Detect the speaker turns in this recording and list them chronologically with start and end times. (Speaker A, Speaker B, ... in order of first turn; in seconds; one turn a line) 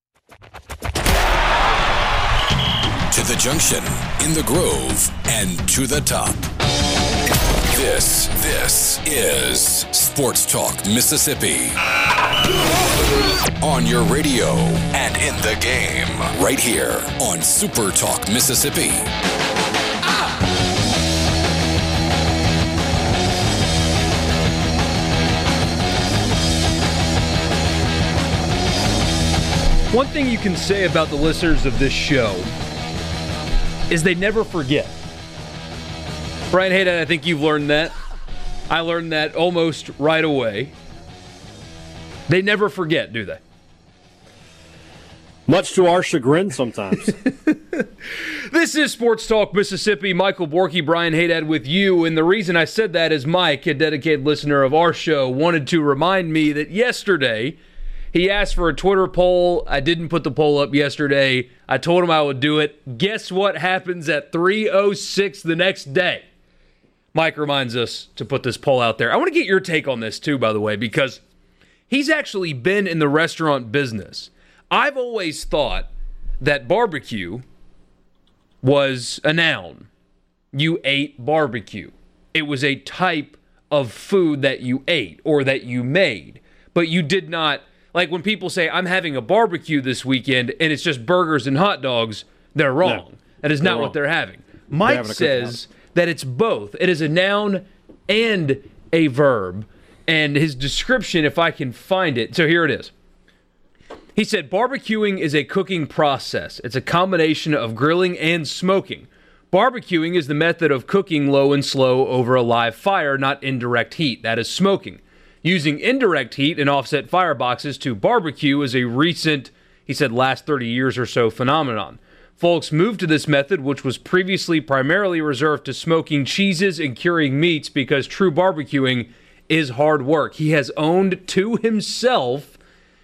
Speaker A: 3.1-6.5
Speaker A: 7.7-11.9
Speaker A: 13.6-19.1
Speaker B: 29.9-32.5
Speaker B: 33.9-34.9
Speaker B: 36.5-37.9
Speaker B: 38.7-40.7
Speaker B: 42.3-43.4
Speaker C: 45.5-47.1
Speaker B: 47.2-57.6
Speaker B: 58.1-66.2
Speaker B: 67.1-71.2
Speaker B: 71.9-75.9
Speaker B: 76.4-77.4
Speaker B: 78.6-79.9
Speaker B: 80.5-102.9
Speaker C: 93.6-93.9
Speaker C: 94.8-95.6
Speaker B: 104.1-132.6